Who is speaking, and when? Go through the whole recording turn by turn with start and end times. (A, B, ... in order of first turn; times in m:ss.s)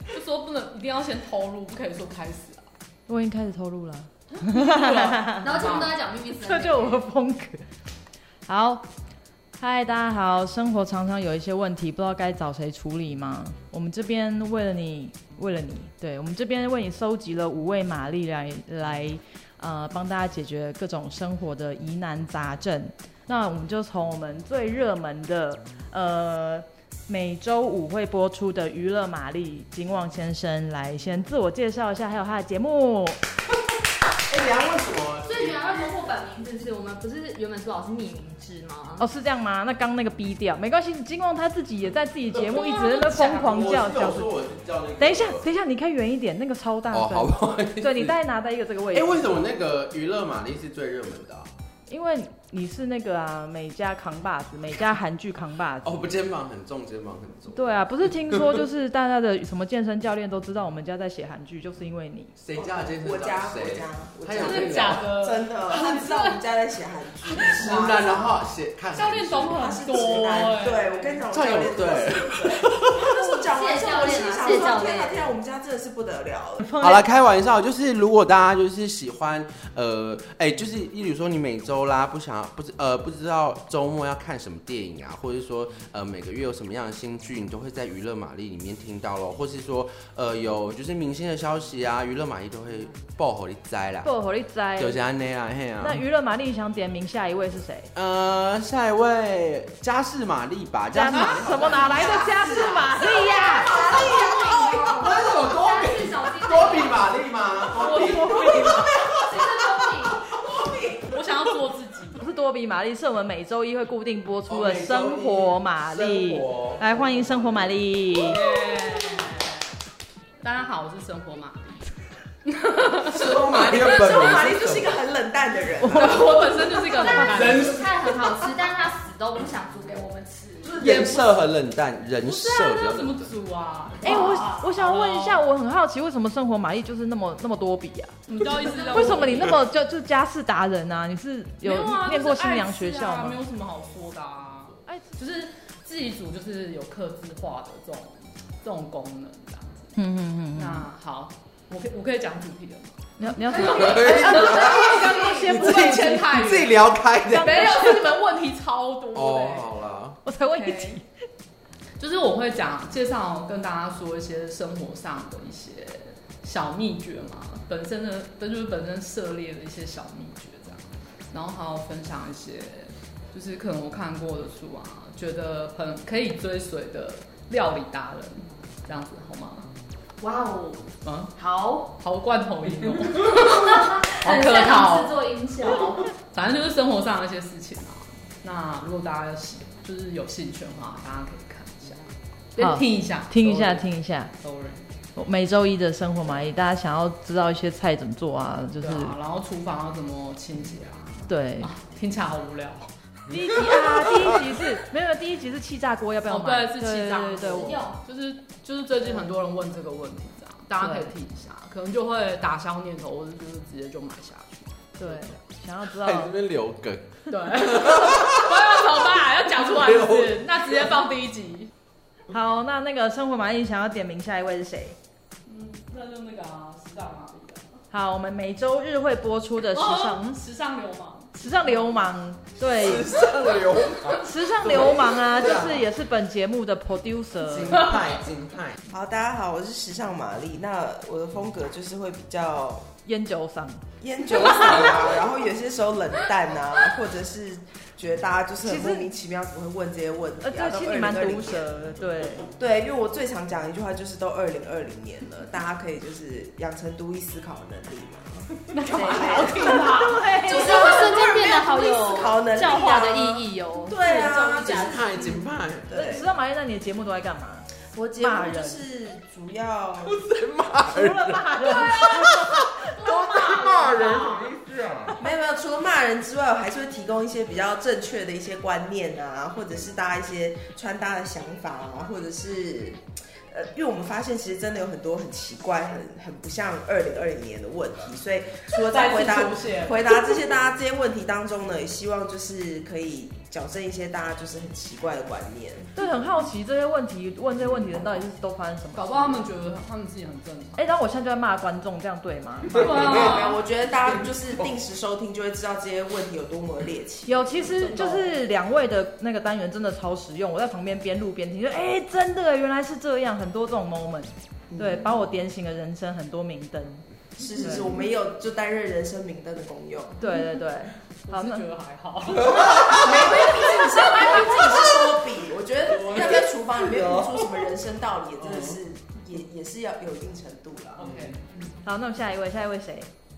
0:00.1-0:02.7 A
0:03.1-0:05.5 B
0:04.3-0:05.9 A
0:05.4-0:07.1 C
0:06.4-0:07.6 B
0:08.5-0:08.9 B
0:09.6-0:33.2 B
0:34.3-0:36.0 D
0:35.3-0:39.0 C
0:39.0-0:44.3 B
0:42.5-0:43.8 A
0:43.3-0:45.5 D
0:45.0-0:49.5 B
0:46.9-0:48.2 D
0:48.9-0:51.5 D
0:51.9-0:55.9 B
0:55.8-0:58.6 D
0:57.5-1:02.3 B
1:02.4-1:05.1 D
1:02.6-1:08.4 E
1:04.4-1:06.4 A
1:05.7-1:06.0 D
1:07.3-1:09.8 D
1:08.9-1:11.2 A
1:09.4-1:16.8 E
1:11.3-1:13.1 D
1:13.2-1:15.4 C
1:16.6-1:17.0 B
1:16.8-1:34.1 D
1:34.0-1:35.0 B
1:34.8-1:36.0 D
1:35.8-1:37.9 B
1:37.9-1:42.2 D
1:40.9-1:43.7 B
1:41.2-1:45.2 E
1:41.8-1:47.1 C
1:45.0-1:49.0 D
1:47.8-1:48.9 A
1:47.8-1:51.2 E
1:48.2-1:48.7 B
1:49.1-1:50.3 C
1:51.1-1:52.2 A
1:52.2-1:58.4 B
1:54.5-1:57.8 D
1:58.2-1:59.6 A
2:00.4-2:01.9 A
2:02.5-2:03.3 A
2:03.0-2:06.8 E
2:03.4-2:04.9 D
2:05.8-2:07.8 A
2:05.8-2:06.3 B
2:07.0-2:10.8 C
2:07.3-2:07.9 D
2:10.6-2:13.2 D
2:10.9-2:11.2 A
2:12.2-2:15.4 A
2:14.0-2:23.4 B
2:18.3-2:19.6 A
2:21.6-2:30.0 A
2:24.9-2:25.2 B
2:30.0-2:30.9 B
2:30.5-2:36.8 A
2:33.2-2:36.3 B
2:33.4-2:38.0 D
2:33.6-2:35.5 C
2:37.3-2:39.7 A
2:37.4-2:37.8 B
2:39.1-2:40.2 D
2:40.2-2:41.0 B
2:40.4-2:41.0 A
2:42.0-2:59.7 A
3:00.2-3:01.9 C
3:01.0-3:01.3 A
3:02.0-3:05.2 A
3:03.4-3:06.1 C
3:06.2-3:12.0 A
3:12.6-3:14.9 A
3:12.6-3:14.3 B
3:15.2-3:19.2 B
3:18.8-3:22.9 A
3:21.3-3:21.7 B
3:23.3-3:27.8 B
3:26.3-3:34.8 A
3:27.4-3:28.0 C
3:29.0-3:29.4 B
3:30.8-3:31.1 B
3:35.0-3:36.3 B
3:35.9-3:38.6 D
3:37.3-3:41.7 A
3:39.7-3:40.4 D
3:42.3-3:45.0 B
3:45.5-3:47.8 A
3:47.9-3:50.4 B
3:49.6-3:52.0 A
3:51.4-3:58.0 B
3:52.6-3:55.9 D
3:57.4-3:58.8 D
3:58.9-4:02.9 E
4:03.0-4:03.8 B
4:04.0-4:11.7 E
4:08.6-4:09.1 B
4:10.4-4:12.5 B
4:12.5-4:19.8 E
4:18.7-4:20.4 A
4:18.9-4:19.4 C
4:19.6-4:20.4 B
4:20.3-4:25.1 C
4:20.4-4:26.3 E
4:24.4-4:26.2 D
4:25.9-4:28.8 B
4:27.9-4:30.2 E
4:30.0-4:35.2 D
4:30.9-4:32.6 B
4:31.5-4:32.0 A
4:32.9-4:34.5 A
4:35.2-4:55.9 E
4:48.8-4:50.4 A
4:56.0-4:59.5 B
4:59.0-5:00.8 A
5:00.8-5:02.9 B
5:02.7-5:04.3 A
5:02.7-5:03.0 D
5:02.8-5:07.7 E
5:07.3-5:17.1 B
5:07.6-5:08.3 A
5:17.4-5:20.2 E
5:17.6-5:18.0 B
5:20.2-5:21.7 B
5:21.3-5:25.1 A
5:22.5-5:22.9 D
5:22.5-5:31.0 E
5:25.9-5:27.2 D
5:31.0-5:31.8 A
5:31.0-5:31.4 D
5:31.8-5:33.1 B